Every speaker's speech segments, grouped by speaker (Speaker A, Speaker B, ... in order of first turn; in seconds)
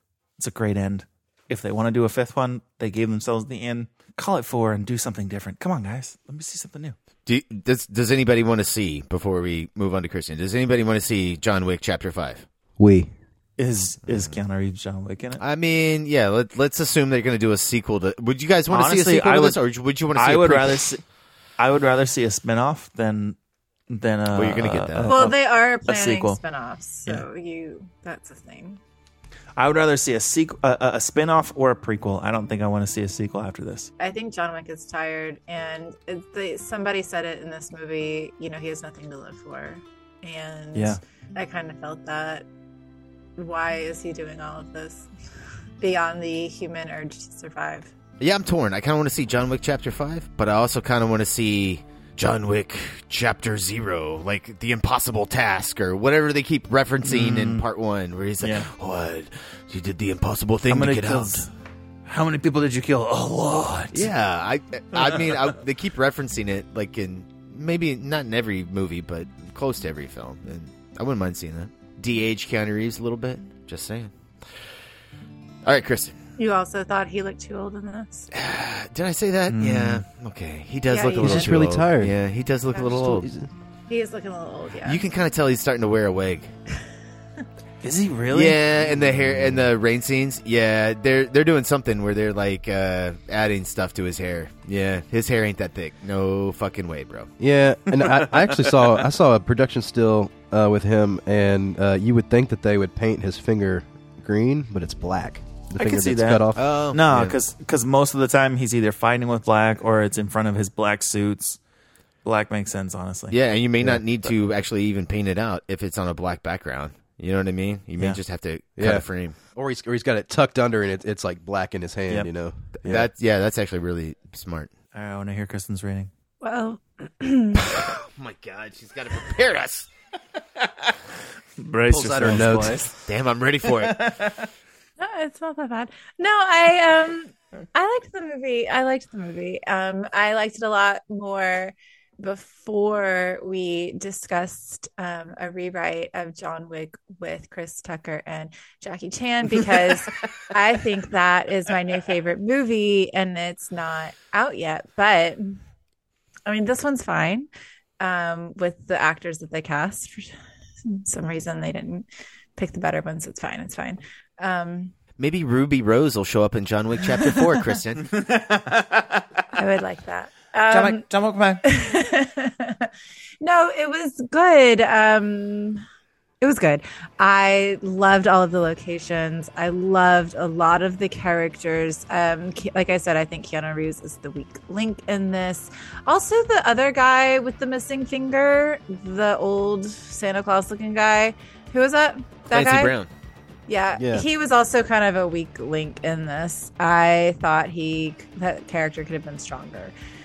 Speaker A: 0.4-7.0, 13.6-15.4, 18.7-19.6, 20.1-21.0, 21.6-23.4, 23.9-26.4, 29.6-33.9, 57.0-57.6, 58.4-58.7, 60.7-61.5, 62.1-64.1, 65.0-65.5, 79.5-80.0, 87.8-88.6, 98.0-98.9, 105.8-111.6, 112.2-113.4, 124.9-126.1, 131.6-132.9, 133.7-134.5, 168.1-169.2, 170.7-171.6
Speaker B: 7.3-12.5, 14.1-14.4, 15.4-20.8, 24.3-25.2, 48.2-61.5, 63.9-74.1, 75.6-76.2, 78.3-83.3, 84.8-86.5, 88.3-97.3, 106.6-107.4, 113.3-119.3, 122.8-124.7, 127.6-130.7, 132.2-134.1, 165.2-168.1, 192.5-193.1
Speaker C: 12.8-13.1, 81.2-82.2, 82.8-83.5, 97.4-106.6, 118.8-123.1, 131.9-132.8, 194.0-194.2
Speaker D: 25.1-28.8, 34.0-42.5, 43.4-45.1, 45.8-47.9, 76.4-78.3, 80.9-81.7, 83.9-85.0, 126.4-127.8, 135.0-155.6, 156.5-157.5, 158.0-160.3, 160.8-162.1, 162.6-164.9, 169.6-171.0, 171.7-172.9, 173.4-175.8, 176.4-192.9, 193.7-199.9